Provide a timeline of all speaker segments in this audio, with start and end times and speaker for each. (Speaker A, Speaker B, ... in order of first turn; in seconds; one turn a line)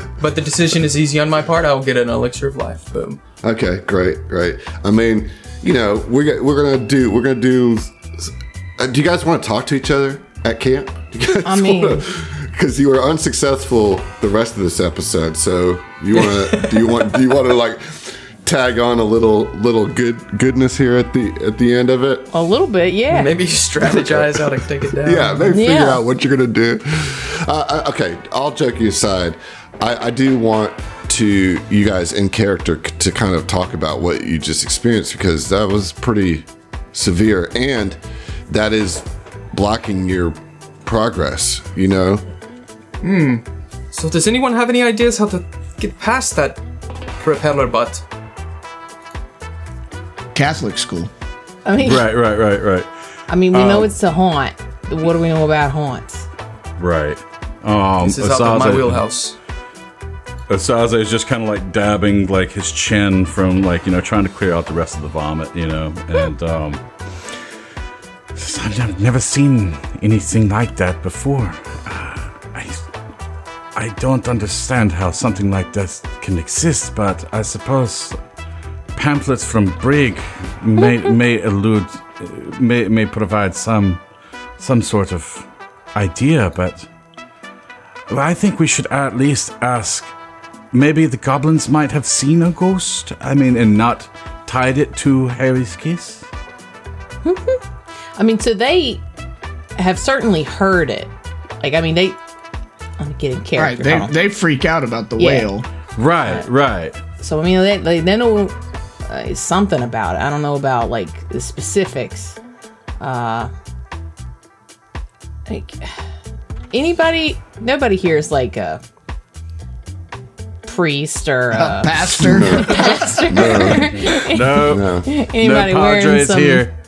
Speaker A: 0.2-3.2
Speaker B: 3.4-22.3
Speaker C: 11.4-12.0
Speaker A: 16.1-17.0
Speaker C: 22.3-23.3
Speaker A: 23.1-25.5
Speaker B: 23.8-24.5
Speaker B: 25.0-42.2
Speaker C: 25.5-26.0
Speaker A: 43.0-46.6
Speaker A: 47.2-48.0
Speaker D: 50.3-51.1
Speaker C: 51.6-52.1
Speaker E: 51.8-52.9
Speaker C: 53.3-56.2
Speaker E: 53.5-53.9
Speaker E: 56.8-59.0
Speaker A: 58.0-59.4
Speaker E: 60.5-66.8
Speaker E: 68.3-72.8
Speaker E: 73.8-78.2
Speaker E: 78.9-84.0
Speaker E: 84.6-86.9
Speaker E: 88.1-90.1
Speaker E: 90.7-96.2
Speaker C: 97.2-97.6
Speaker C: 98.2-99.0
Speaker C: 99.8-102.2
Speaker C: 103.0-104.1
Speaker D: 103.6-105.7
Speaker C: 105.2-105.5
Speaker E: 106.0-107.0
Speaker C: 107.2-112.4
Speaker C: 113.0-113.5
Speaker C: 115.5-116.0
Speaker C: 116.7-118.8
Speaker C: 120.6-126.7
Speaker D: 121.5-123.2
Speaker B: 122.2-125.1
Speaker E: 123.9-126.7